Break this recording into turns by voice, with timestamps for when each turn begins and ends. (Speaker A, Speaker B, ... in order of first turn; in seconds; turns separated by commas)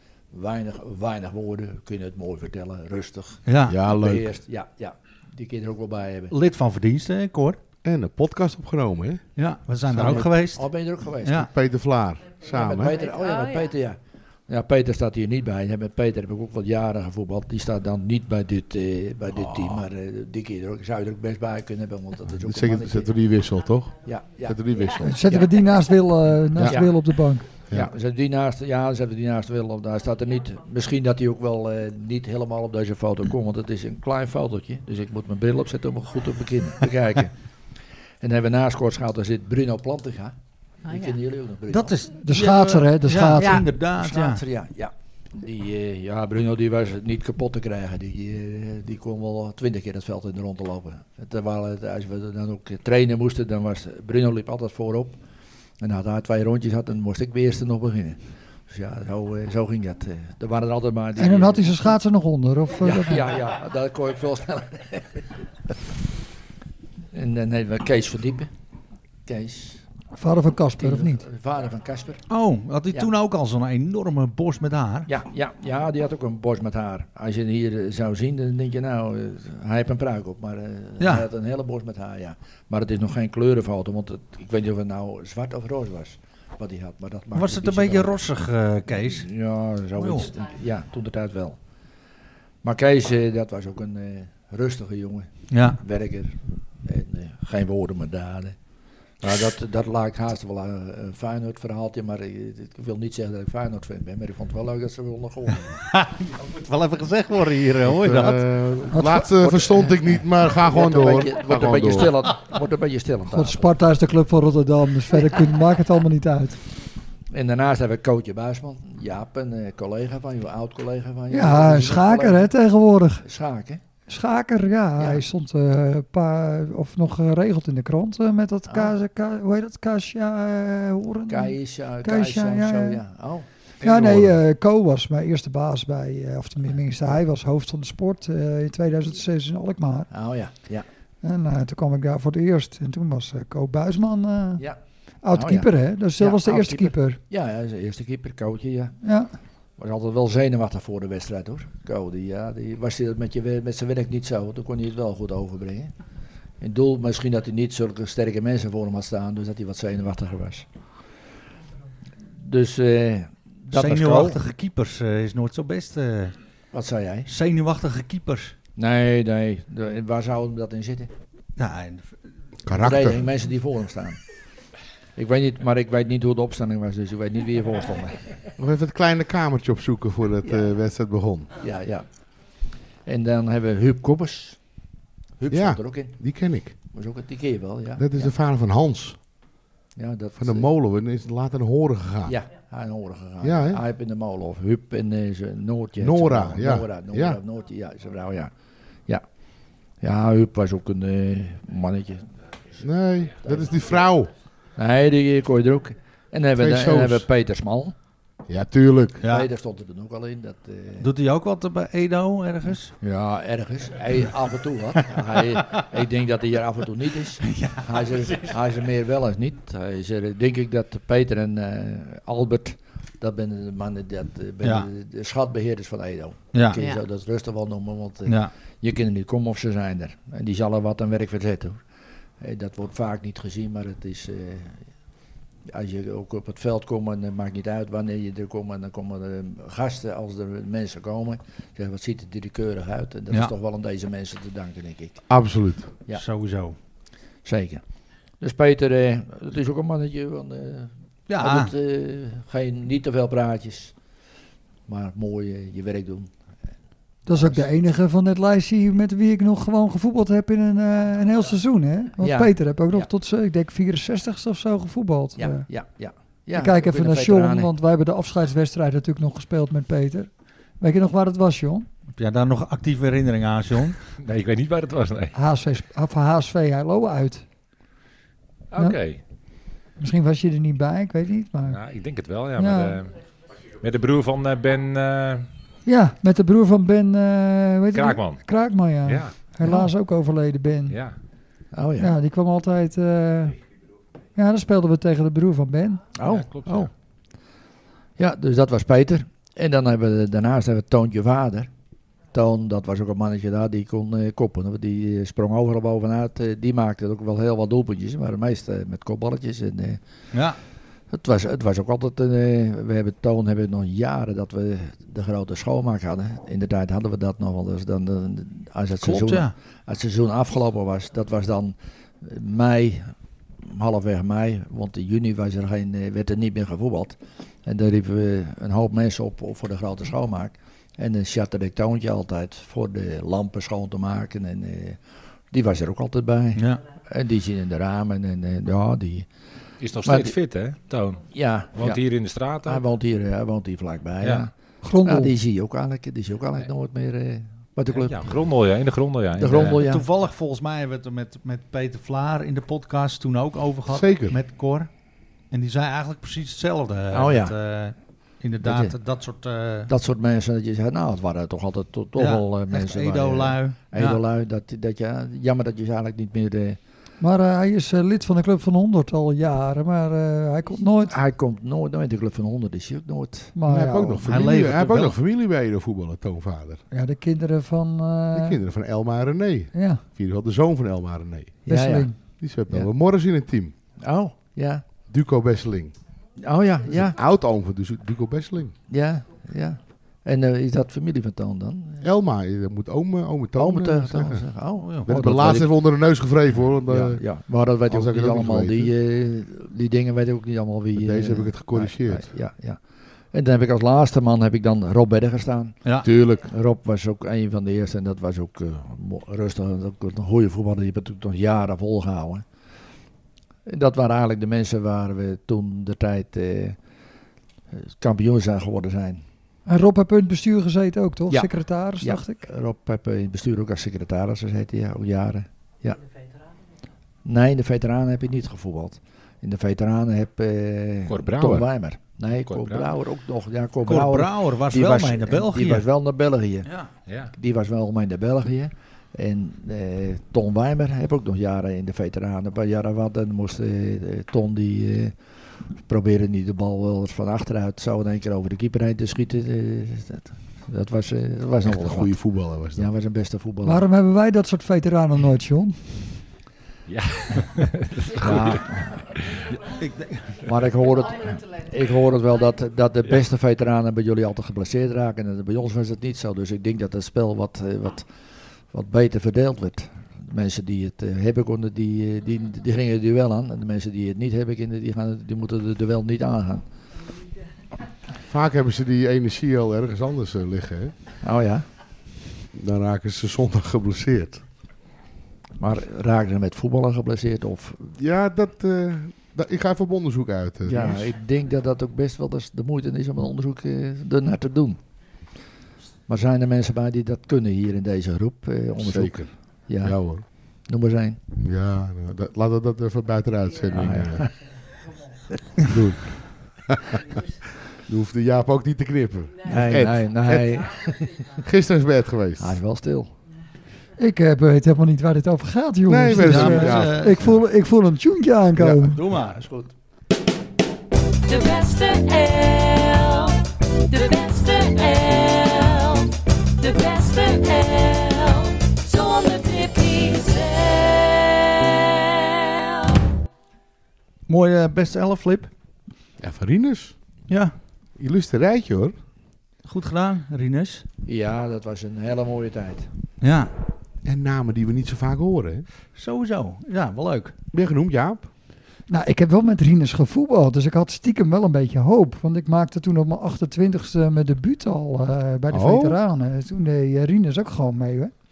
Speaker A: 0.3-6.3, Speaker B: 3.5-3.8, Speaker C: 3.7-4.3, Speaker B: 6.3-7.6, Speaker C: 7.8-9.2, Speaker B: 9.4-10.7, Speaker C: 9.9-10.3, Speaker A: 10.5-11.5, Speaker B: 11.2-11.5, Speaker C: 11.4-13.0, Speaker A: 12.4-23.1, Speaker D: 13.2-13.6, Speaker C: 22.4-25.3, Speaker A: 24.0-24.7, Speaker E: 25.0-27.5, Speaker A: 25.2-25.6, Speaker C: 26.6-26.9, Speaker A: 26.6-27.0, Speaker A: 27.7-37.3, Speaker A: 38.2-42.0, Speaker D: 40.9-41.2, Speaker B: 41.7-44.4, Speaker E: 42.2-43.6, Speaker D: 43.4-43.6, Speaker A: 43.9-55.2, Speaker A: 55.8-62.0, Speaker E: 61.2-63.3, Speaker A: 62.8-65.7, Speaker A: 67.1-68.5, Speaker A: 69.3-69.8, Speaker E: 70.2-71.2, Speaker A: 70.8-72.2, Speaker B: 72.3-75.1, Speaker A: 75.1-88.2, Speaker B: 81.0-81.3, Speaker B: 87.3-89.3, Speaker A: 88.9-91.6, Speaker B: 90.0-90.3, Speaker A: 92.6-98.6, Speaker B: 95.5-95.8, Speaker A: 99.2-105.8, Speaker B: 105.9-108.4, Speaker C: 107.8-112.2, Speaker E: 108.9-109.3, Speaker A: 109.4-113.7, Speaker E: 113.3-116.6, Speaker A: 117.3-122.5, Speaker E: 121.3-123.2, Speaker A: 123.2-123.8, Speaker E: 124.1-133.0, Speaker A: 125.0-125.2, Speaker A: 128.7-129.0, Speaker A: 131.3-133.5, Speaker C: 133.8-134.3, Speaker E: 133.8-140.1, Speaker A: 140.1-140.9, Speaker E: 141.2-144.7, Speaker E: 145.2-147.2, Speaker A: 145.3-149.0, Speaker E: 149.0-149.3, Speaker A: 149.8-155.9, Speaker A: 156.6-160.7, Speaker A: 162.3-164.4, Speaker B: 163.7-166.4, Speaker A: 166.7-167.3, Speaker B: 167.3-168.6, Speaker A: 168.8-171.1, Speaker B: 171.6-172.2, Speaker C: 172.7-173.2, Speaker A: 172.7-174.2, Speaker A: 175.2-178.3, Speaker C: 178.6-181.5, Speaker A: 180.4-180.7, Speaker A: 181.6-182.1, Speaker A: 183.1-184.6, Speaker A: 185.4-186.2, Speaker C: 185.5-186.8, Speaker A: 186.8-188.3, Speaker C: 188.0-189.2, Speaker A: 190.0-190.7, Speaker C: 190.4-192.4, Speaker A: 192.2-198.5, Speaker C: 193.4-193.8, Speaker C: 196.0-197.4, Speaker A: 200.0-202.3, Speaker C: 202.8-204.3, Speaker A: 203.4-203.8, Speaker A: 204.8-208.0, Speaker C: 206.6-207.2, Speaker C: 208.5-209.2, Speaker B: 209.2-209.5, Speaker A: 209.2-211.1, Speaker B: 211.0-212.9, Speaker A: 213.0-231.8, Speaker B: 217.5-217.9, Speaker B: 224.6-224.9, Speaker B: 226.5-226.8, Speaker B: 228.3-228.5, Speaker A: 232.4-234.8, Speaker A: 235.7-245.2, Speaker C: 245.3-245.9, Speaker B: 246.1-246.8, Speaker A: 247.4-247.8, Speaker A: 248.4-253.9, Speaker B: 251.3-251.7, Speaker A: 254.9-256.3, Speaker E: 257.3-265.7, Speaker A: 257.3-257.7, Speaker A: 262.2-263.1, Speaker A: 265.4-267.7, Speaker E: 266.6-271.9, Speaker B: 272.2-274.0, Speaker F: 274.2-275.4, Speaker E: 275.3-277.4, Speaker F: 278.7-279.2, Speaker E: 280.0-281.8, Speaker F: 281.7-283.2, Speaker E: 282.6-283.0, Speaker F: 283.8-285.5, Speaker E: 285.9-291.0, Speaker F: 287.9-289.4, Speaker A: 289.6-289.9, Speaker F: 290.9-291.1, Speaker A: 291.7-292.1, Speaker E: 292.0-293.6, Speaker E: 294.4-296.0, Speaker A: 296.2-296.9, Speaker F: 296.2-296.9, Speaker A: 298.2-301.7, Speaker A: 302.3-310.0, Speaker B: 310.3-310.6, Speaker A: 311.1-335.0, Speaker B: 319.0-319.6, Speaker A: 335.5-339.3, Speaker B: 336.6-336.8, Speaker F: 339.8-342.8, Speaker A: 340.0-340.4, Speaker A: 341.3-342.0, Speaker A: 342.6-344.5, Speaker F: 344.2-344.5, Speaker E: 344.8-345.3, Speaker A: 345.0-348.4, Speaker F: 348.0-349.9, Speaker A: 349.4-350.1, Speaker B: 349.8-354.9, Speaker C: 353.9-354.4, Speaker B: 355.5-359.9, Speaker A: 357.1-357.6, Speaker A: 358.6-359.0, Speaker A: 359.9-366.8, Speaker B: 362.2-364.2, Speaker E: 367.2-371.1, Speaker A: 371.1-373.6, Speaker E: 373.6-374.3, Speaker C: 373.7-376.8, Speaker B: 374.3-375.2, Speaker E: 376.9-378.6, Speaker C: 378.3-381.6, Speaker E: 379.7-380.0, Speaker E: 381.6-382.2, Speaker A: 381.7-382.1, Speaker C: 382.2-383.8, Speaker A: 384.0-384.9, Speaker C: 385.1-386.0, Speaker A: 386.4-387.2, Speaker C: 386.9-388.8, Speaker A: 388.9-392.1, Speaker C: 392.0-394.4, Speaker A: 393.6-395.7, Speaker B: 394.8-395.1, Speaker C: 395.1-398.9, Speaker A: 396.8-402.8, Speaker C: 400.9-402.3, Speaker A: 403.3-412.5, Speaker B: 405.8-406.1, Speaker C: 406.0-406.5, Speaker A: 413.7-416.8, Speaker A: 417.7-419.2, Speaker E: 419.7-422.4, Speaker A: 421.3-426.0, Speaker A: 427.2-436.7, Speaker F: 431.1-431.7, Speaker F: 432.4-432.9, Speaker B: 433.8-435.9, Speaker F: 437.1-437.3, Speaker A: 437.3-445.2, Speaker A: 445.8-453.9, Speaker C: 451.7-452.9, Speaker E: 453.6-455.9, Speaker F: 456.9-458.6, Speaker A: 458.2-459.0, Speaker B: 458.2-458.6, Speaker B: 459.6-460.5, Speaker A: 460.4-468.1, Speaker A: 468.7-476.6, Speaker C: 478.3-480.9, Speaker A: 481.2-481.7, Speaker C: 482.6-484.4, Speaker A: 485.6-487.9, Speaker C: 488.0-491.1, Speaker A: 490.7-494.8, Speaker A: 496.1-501.2, Speaker C: 498.8-500.2, Speaker C: 501.4-504.3, Speaker A: 503.7-504.4, Speaker C: 505.6-510.6, Speaker A: 509.5-511.4, Speaker C: 511.4-512.5, Speaker A: 512.4-513.1, Speaker E: 514.0-519.0, Speaker C: 515.9-517.4, Speaker B: 516.2-517.3, Speaker C: 518.6-518.9, Speaker B: 518.8-519.4, Speaker A: 519.4-519.7, Speaker D: 521.3-533.0, Speaker B: 534.3-535.5, Speaker C: 536.2-537.0, Speaker B: 537.3-537.5, Speaker C: 538.0-538.9, Speaker B: 539.6-540.9, Speaker A: 541.1-542.9, Speaker B: 543.2-543.5, Speaker C: 544.0-545.7, Speaker B: 545.9-547.4, Speaker C: 547.5-548.3, Speaker E: 548.9-558.1, Speaker C: 555.5-556.0